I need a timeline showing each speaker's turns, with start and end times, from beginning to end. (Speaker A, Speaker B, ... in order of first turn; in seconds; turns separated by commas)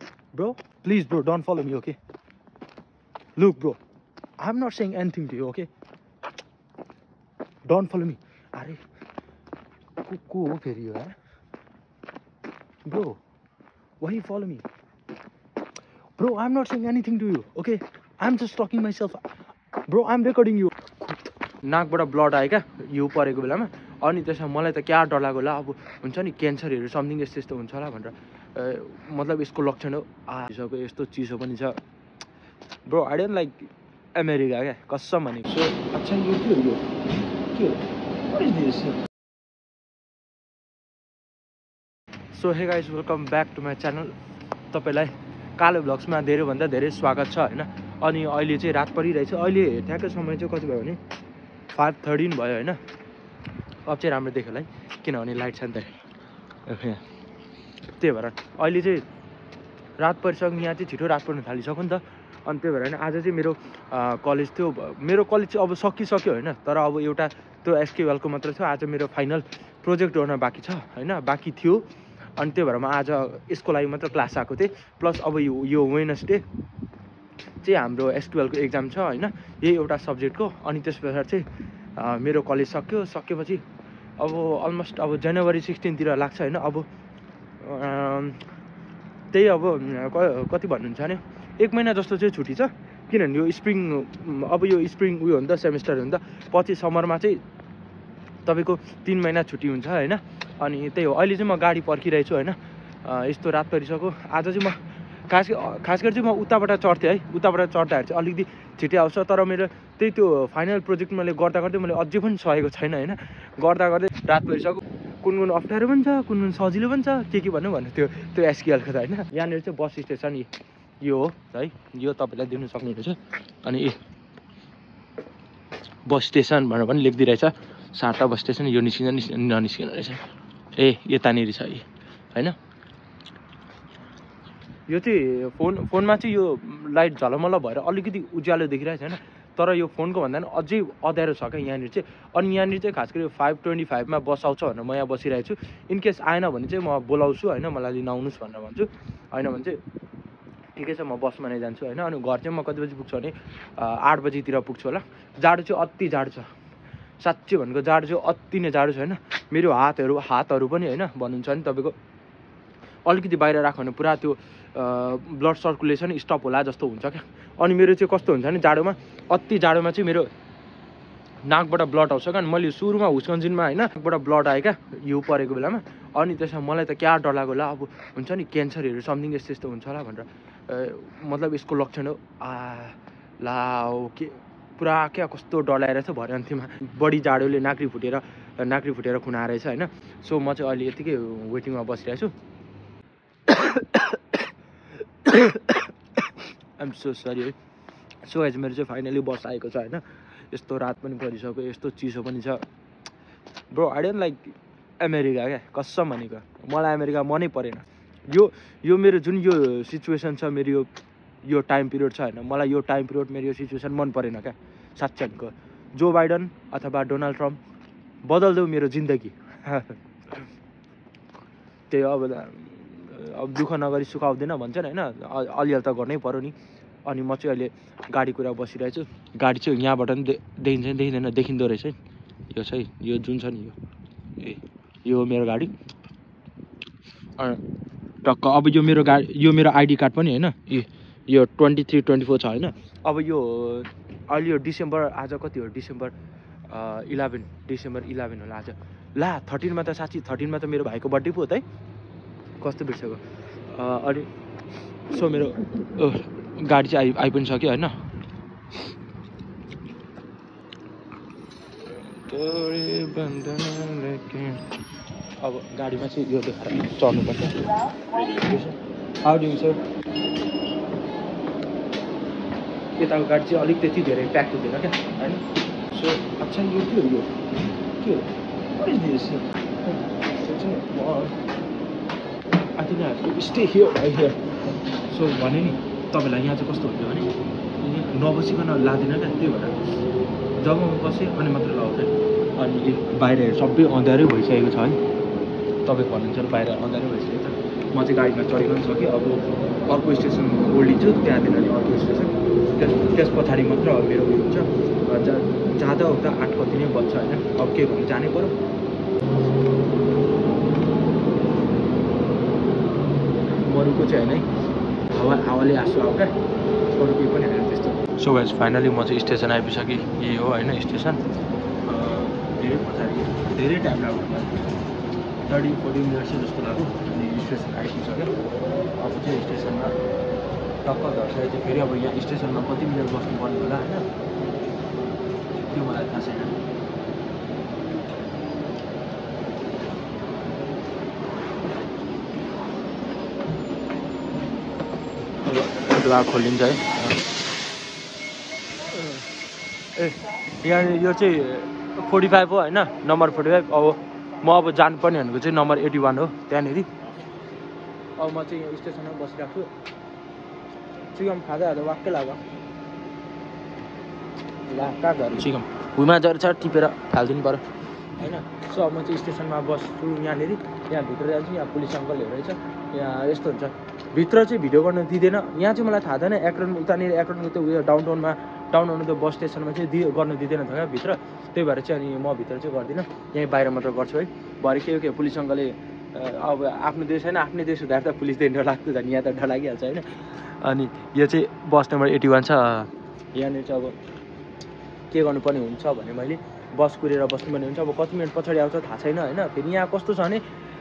Speaker A: 0.3-2.0, Speaker A: 3.4-3.8, Speaker A: 4.4-5.7, Speaker A: 7.7-8.8, Speaker A: 10.0-11.2, Speaker A: 12.9-13.2, Speaker A: 14.0-14.7, Speaker A: 16.2-19.2, Speaker A: 19.9-31.8, Speaker A: 32.9-36.9, Speaker A: 37.5-39.0, Speaker A: 42.3-44.1, Speaker A: 44.7-51.0, Speaker A: 51.7-52.8, Speaker A: 53.9-56.0, Speaker A: 56.7-57.0, Speaker A: 58.0-59.1, Speaker A: 60.0-76.4, Speaker A: 77.6-83.6, Speaker A: 84.2-86.9, Speaker A: 87.6-88.4, Speaker A: 89.3-97.4, Speaker A: 98.5-120.5, Speaker A: 121.0-124.0, Speaker A: 126.1-130.2, Speaker A: 130.8-132.6, Speaker A: 134.9-149.8, Speaker A: 150.8-156.5, Speaker A: 157.2-162.0, Speaker A: 163.1-170.3, Speaker A: 171.4-192.3, Speaker A: 193.5-194.4, Speaker A: 195.2-197.6, Speaker A: 198.2-202.6, Speaker A: 203.7-210.9, Speaker A: 211.4-217.6, Speaker A: 218.2-220.5, Speaker A: 221.9-232.0, Speaker A: 232.5-233.8, Speaker A: 234.4-235.7, Speaker A: 238.2-246.1, Speaker A: 246.7-251.6, Speaker A: 252.6-254.3, Speaker A: 255.1-257.9, Speaker A: 261.9-264.6, Speaker A: 265.4-269.8, Speaker A: 273.0-277.3, Speaker A: 278.0-281.4, Speaker A: 282.8-284.4, Speaker A: 285.1-289.8, Speaker A: 290.6-295.0, Speaker A: 295.9-308.6, Speaker A: 313.5-314.5, Speaker A: 315.1-316.3, Speaker A: 316.9-321.2, Speaker A: 321.9-324.7, Speaker A: 325.4-328.3, Speaker A: 329.0-329.9, Speaker A: 330.8-334.1, Speaker A: 335.7-336.6, Speaker A: 345.4-347.2, Speaker A: 348.9-349.3, Speaker A: 350.0-356.9, Speaker A: 358.2-359.7, Speaker A: 361.1-362.4, Speaker A: 364.7-367.6, Speaker A: 368.2-394.0, Speaker A: 395.1-400.4